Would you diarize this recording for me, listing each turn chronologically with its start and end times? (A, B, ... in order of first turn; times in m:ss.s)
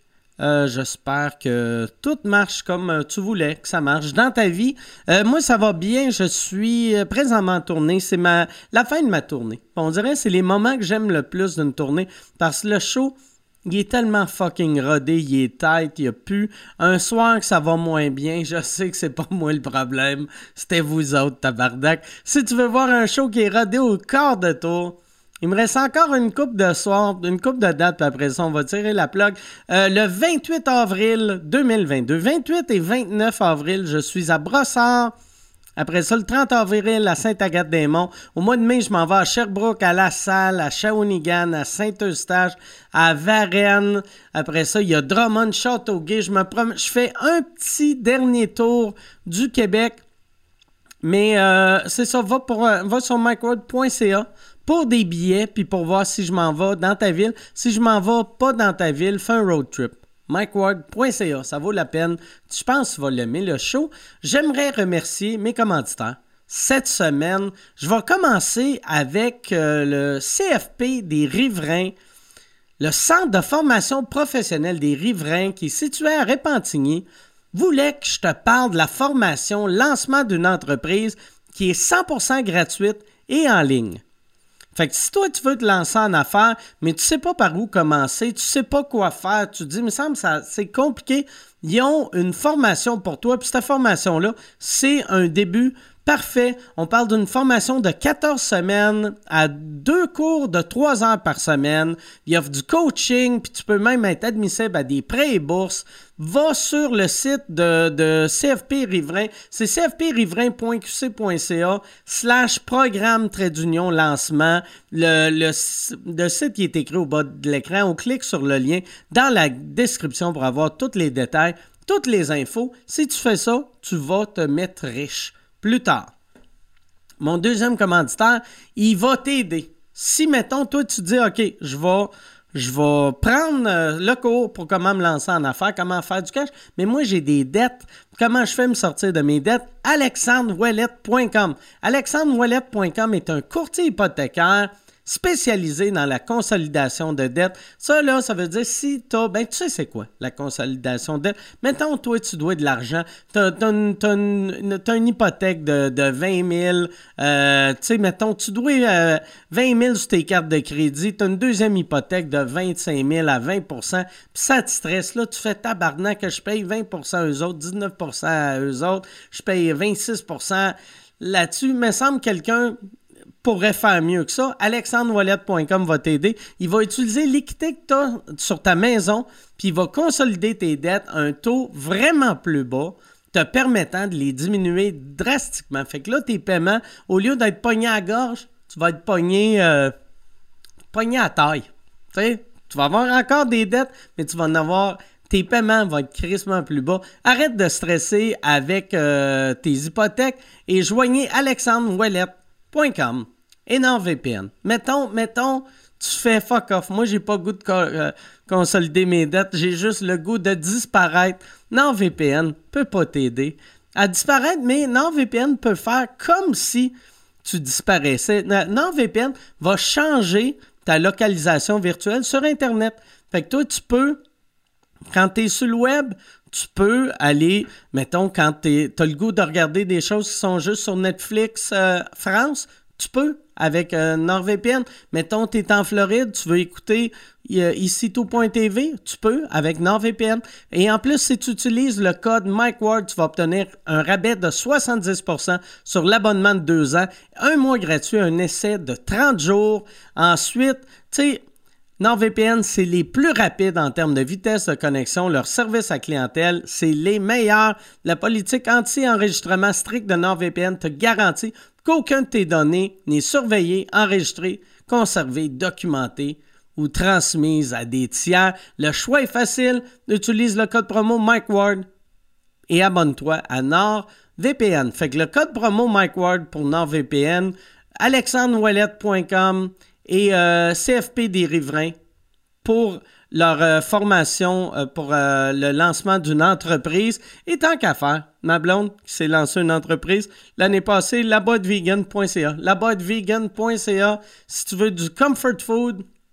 0:00.4-0:13.2 A
0:13.7-0:35.1 A
0:35.8-0:50.0 A
0:51.0-1:11.9 A
1:12.8-1:24.0 A
1:24.8-2:06.1 A
2:07.2-2:52.8 A
2:53.4-3:09.9 A
3:10.9-3:44.2 A
3:45.1-4:11.4 A
4:12.0-4:31.9 A
4:32.7-4:42.0 A
4:42.6-4:56.0 A